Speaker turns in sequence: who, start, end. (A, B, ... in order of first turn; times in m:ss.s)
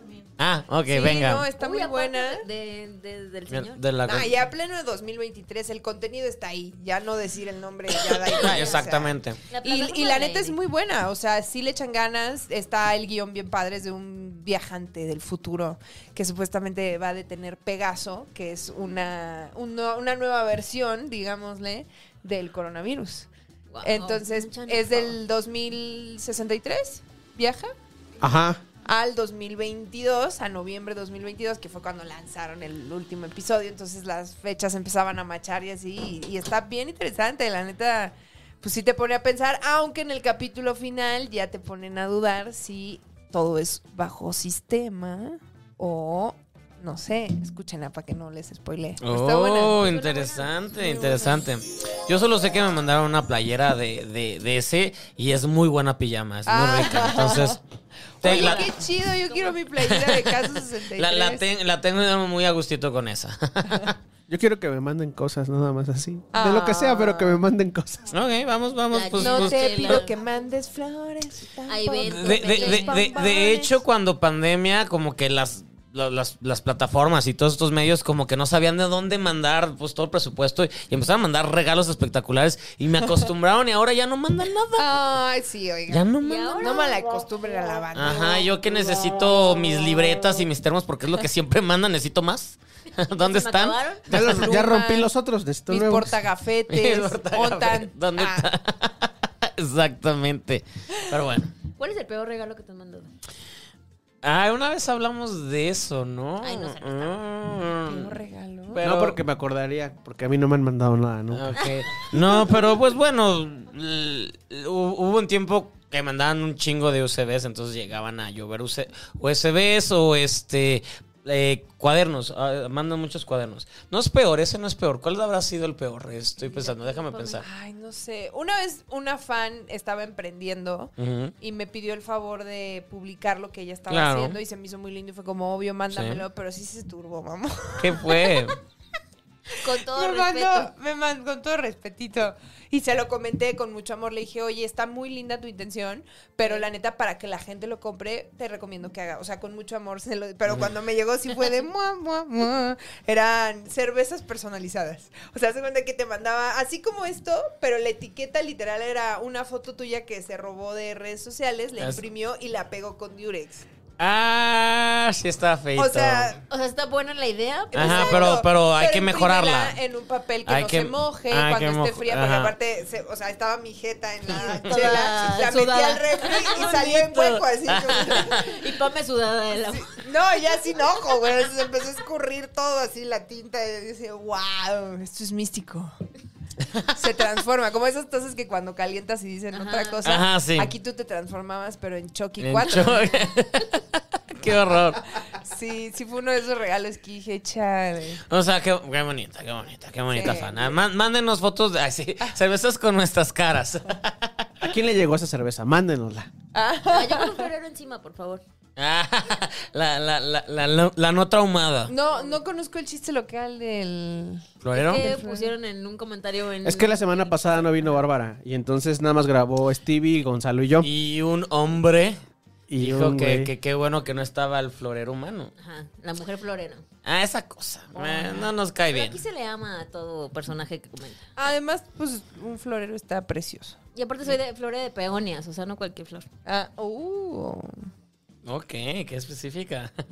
0:00.4-0:01.5 A
0:00.9-0:02.4 B
0:01.6-0:03.8 C
0:03.5-0:04.3 A
0:04.0-0:23.3 B
0:08.0-0:09.4 A
0:08.4-0:08.8 C
0:09.5-0:10.6 C
0:23.7-0:25.2 C
0:23.8-0:27.7 B
0:28.2-0:28.6 D
0:28.8-0:49.8 B
0:49.0-0:57.6 A
0:49.6-0:51.4 C
0:56.4-0:57.6 B
0:58.2-0:58.7 A
0:58.2-1:01.4 B
0:58.2-0:59.6 C
0:59.8-1:04.0 A
1:04.3-1:08.1 D
1:06.3-1:07.4 B
1:08.1-1:10.0 A
1:08.9-1:10.1 C
1:09.2-1:13.8 B
1:11.7-1:13.1 C
1:12.0-1:25.0 A
1:24.8-1:28.5 B
1:25.9-1:26.9 A
1:26.2-1:27.0 C
1:27.9-1:34.5 A
1:32.9-1:34.0 C
1:34.1-1:36.1 D
1:34.2-1:35.1 B
1:35.7-1:38.5 B
1:36.7-1:41.5 A
1:41.8-1:43.1 C
1:44.2-1:48.1 A
1:46.4-1:47.2 C
1:47.8-1:48.8 B
1:48.7-1:49.2 A
1:48.8-1:51.6 D
1:51.3-2:07.4 A
2:06.4-2:07.4 C
2:07.4-2:18.5 B
2:11.0-2:11.3 A
2:13.9-2:14.4 A
2:15.9-2:16.2 A
2:17.8-2:18.6 A
2:19.5-2:20.7 C
2:19.9-2:43.6 B
2:41.8-2:42.0 A
2:44.0-2:46.4 A
2:45.8-2:46.4 B
2:46.5-2:48.4 C
2:47.7-2:58.6 B
2:47.7-2:49.8 A
2:50.4-2:52.5 A
2:54.3-2:56.8 C
2:54.7-2:55.1 A
2:56.2-2:58.5 A
2:58.1-3:00.0 C
2:59.7-3:05.9 B
3:06.9-3:13.3 B
3:09.5-3:10.0 C
3:10.0-3:10.7 A
3:12.4-3:15.0 A
3:15.3-3:18.2 B
3:18.3-3:24.7 A
3:20.1-3:20.8 B
3:24.6-3:26.3 D
3:26.5-3:27.5 B
3:26.9-3:28.4 C
3:28.8-3:31.9 A
3:31.9-3:35.5 B
3:32.1-3:32.4 C
3:34.6-3:35.1 A
3:34.7-3:38.0 C
3:36.6-3:40.9 D
3:40.8-3:42.2 A
3:42.7-3:43.5 D
3:42.8-3:45.5 A
3:45.6-3:46.8 C
3:47.0-3:49.2 A
3:47.9-3:51.2 C
3:51.4-3:53.8 B
3:53.9-3:56.3 C
3:56.4-3:57.8 B
3:58.4-3:59.9 A